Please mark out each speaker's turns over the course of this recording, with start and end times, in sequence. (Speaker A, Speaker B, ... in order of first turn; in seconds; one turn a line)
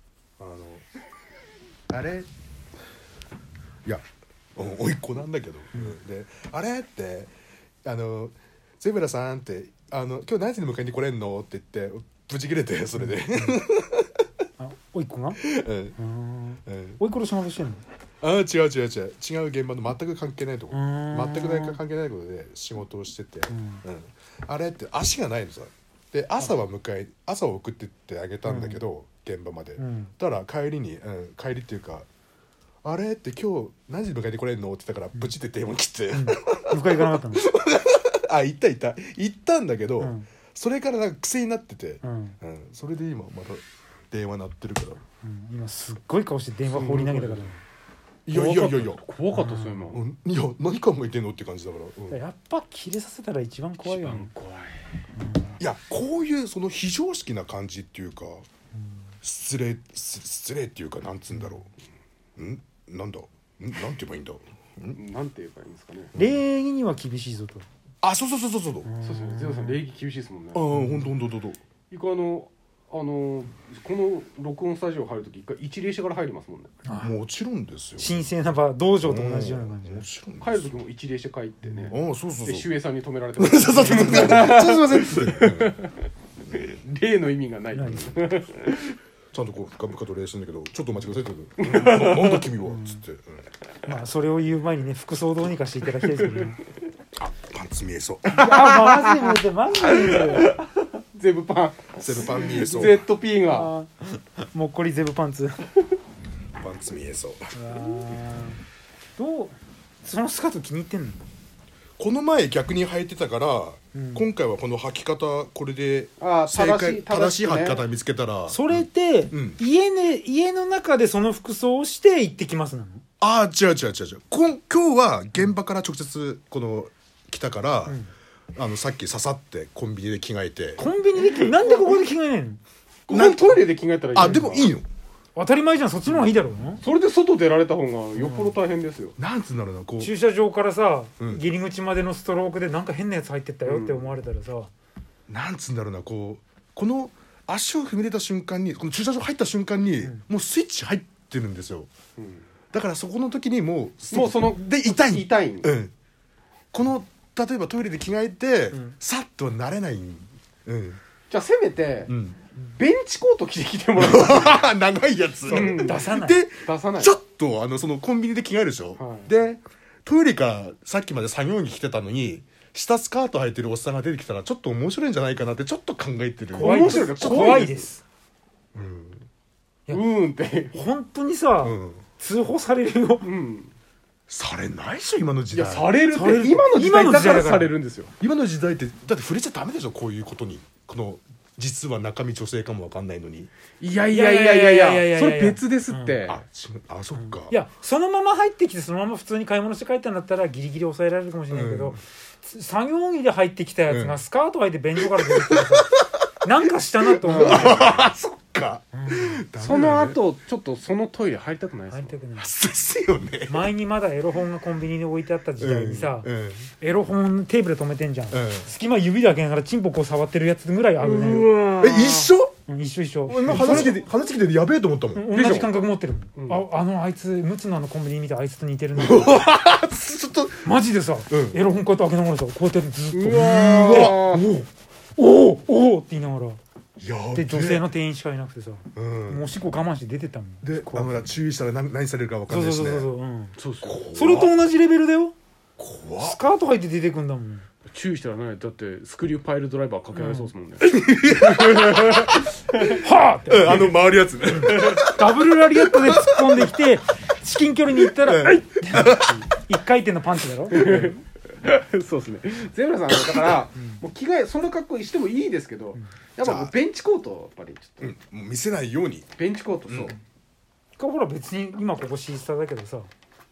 Speaker A: 0.4-0.8
Speaker A: 1.9-2.3
Speaker A: 4.5-7.3
Speaker A: 7.8-14.1
Speaker B: 13.0-13.6
Speaker B: 14.6-17.8
Speaker A: 15.4-16.0
Speaker A: 16.7-17.0
Speaker A: 18.2-32.1
Speaker B: 20.7-21.8
Speaker B: 23.5-23.8
Speaker B: 28.5-28.8
Speaker B: 29.8-30.1
Speaker A: 32.8-45.0
Speaker B: 36.1-37.5
Speaker B: 40.0-40.3
Speaker B: 42.0-42.4
Speaker B: 45.2-47.6
Speaker C: 46.7-47.5
Speaker A: 48.3-49.0
Speaker C: 48.3-50.0
Speaker B: 49.3-49.9
Speaker A: 49.9-52.2
Speaker B: 52.1-54.3
Speaker C: 53.8-54.9
Speaker B: 55.1-55.6
Speaker A: 55.6-58.4
Speaker A: 59.2-61.7
Speaker A: 62.4-65.0
Speaker C: 64.9-66.1
Speaker B: 66.2-67.7
Speaker A: 66.2-66.4
Speaker A: 68.0-68.9
Speaker B: 68.8-69.8
Speaker C: 69.0-70.6
Speaker A: 70.5-71.6
Speaker B: 70.7-71.1
Speaker C: 71.9-76.7
Speaker B: 76.8-77.2
Speaker A: 77.0-78.3
Speaker B: 78.0-80.1
Speaker A: 79.0-80.7
Speaker C: 80.4-86.0
Speaker A: 81.7-82.7
Speaker A: 83.4-85.8
Speaker B: 83.9-84.6
Speaker C: 86.5-89.0
Speaker B: 87.7-88.2
Speaker A: 89.3-93.5
Speaker C: 91.6-92.5
Speaker B: 92.6-93.0
Speaker B: 93.8-96.6
Speaker C: 96.0-96.5
Speaker A: 97.2-98.5
Speaker B: 98.3-100.6
Speaker C: 98.4-103.7
Speaker A: 102.0-103.1
Speaker B: 103.4-105.7
Speaker A: 106.6-107.5
Speaker B: 107.5-108.6
Speaker B: 109.2-111.2
Speaker A: 112.0-119.6
Speaker B: 113.9-114.3
Speaker C: 116.2-117.8
Speaker B: 118.5-123.0
Speaker A: 123.2-128.0
Speaker A: 128.6-130.9
Speaker B: 130.8-132.6
Speaker C: 131.2-132.0
Speaker C: 133.1-134.7
Speaker A: 133.1-134.9
Speaker B: 134.2-134.6
Speaker B: 135.4-136.8
Speaker C: 136.8-139.2
Speaker B: 138.2-138.6
Speaker A: 139.2-140.1
Speaker B: 140.0-144.7
Speaker C: 143.7-144.1
Speaker A: 145.3-151.9
Speaker C: 152.2-152.5
Speaker A: 152.7-155.9
Speaker C: 154.1-155.7
Speaker A: 156.7-161.0
Speaker C: 161.3-162.1
Speaker A: 162.1-162.4
Speaker C: 162.6-164.7
Speaker A: 164.0-177.7
Speaker C: 165.5-166.1
Speaker B: 165.5-166.4
Speaker C: 166.6-167.2
Speaker C: 169.0-169.3
Speaker B: 176.6-178.0
Speaker C: 176.6-177.9
Speaker A: 178.8-179.2
Speaker C: 179.9-180.8
Speaker B: 180.7-183.3
Speaker A: 181.6-182.1
Speaker C: 183.2-183.7
Speaker A: 184.3-186.0
Speaker C: 185.5-188.1
Speaker B: 186.1-187.7
Speaker A: 188.2-193.5
Speaker C: 193.8-196.4
Speaker B: 194.1-196.2
Speaker A: 196.2-197.6
Speaker B: 197.2-208.1
Speaker A: 201.5-202.0
Speaker A: 203.9-204.2
Speaker A: 205.2-206.1
Speaker A: 207.1-210.2
Speaker C: 207.2-207.8
Speaker B: 208.9-209.4
Speaker C: 209.6-212.2
Speaker B: 211.9-212.5
Speaker A: 212.4-213.7
Speaker B: 213.5-221.5
Speaker A: 215.6-216.7
Speaker A: 218.3-218.7
Speaker C: 221.0-222.3
Speaker A: 221.8-222.6
Speaker B: 222.7-224.1
Speaker A: 223.3-225.2
Speaker B: 225.1-229.5
Speaker C: 225.3-225.7
Speaker C: 226.4-226.6
Speaker A: 229.0-230.7
Speaker B: 230.6-234.3
Speaker A: 231.3-231.6
Speaker C: 233.1-234.5
Speaker A: 233.3-234.7
Speaker B: 235.2-236.6
Speaker A: 237.0-237.9
Speaker B: 237.3-241.2
Speaker A: 238.9-239.5
Speaker A: 240.6-243.1
Speaker B: 242.5-243.6
Speaker C: 243.6-244.0
Speaker A: 243.8-244.5
Speaker B: 244.1-245.3
Speaker A: 245.8-246.4
Speaker B: 246.2-247.7
Speaker C: 247.9-253.0
Speaker B: 250.1-250.5
Speaker A: 250.9-252.5
Speaker B: 252.8-254.0
Speaker A: 253.5-255.2
Speaker B: 254.5-261.2
Speaker C: 254.7-255.0
Speaker A: 256.1-256.7
Speaker A: 258.2-259.4
Speaker C: 259.1-259.4
Speaker C: 260.7-268.1
Speaker B: 263.8-264.0
Speaker A: 266.4-266.7
Speaker A: 268.0-269.3
Speaker C: 269.4-270.2
Speaker A: 269.9-270.2
Speaker B: 271.0-273.1